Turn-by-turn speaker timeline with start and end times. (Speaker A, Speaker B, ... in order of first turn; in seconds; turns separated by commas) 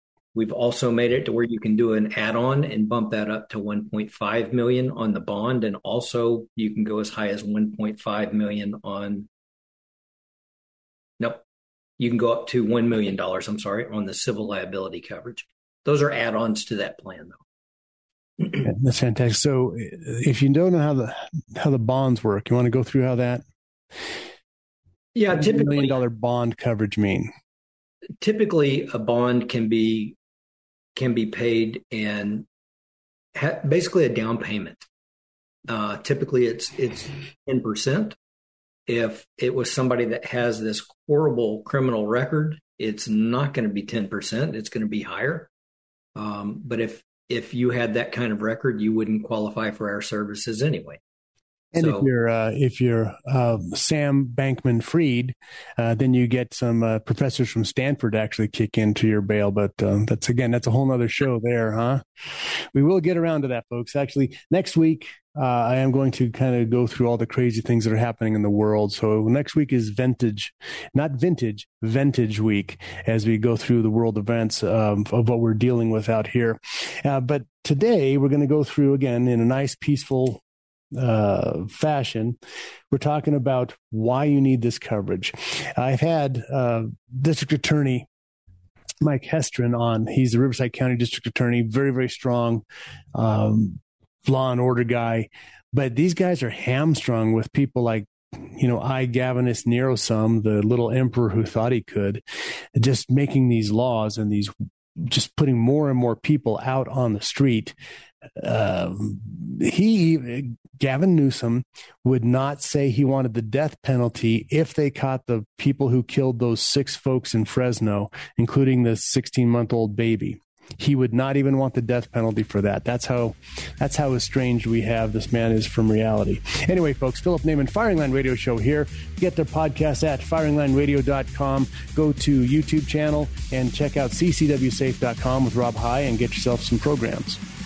Speaker A: 0.3-9.3, Speaker A: 12.0-17.4, Speaker B: 18.6-23.4, Speaker A: 25.1-26.0, Speaker B: 25.3-27.3, Speaker A: 28.2-30.1, Speaker A: 30.9-32.5, Speaker A: 33.3-34.8, Speaker A: 35.7-38.1, Speaker A: 38.9-45.5, Speaker A: 46.1-51.0, Speaker B: 51.7-80.4, Speaker A: 51.8-52.0, Speaker B: 80.9-82.4, Speaker B: 82.9-88.1, Speaker B: 89.0-102.2, Speaker B: 102.7-107.7, Speaker B: 108.4-137.4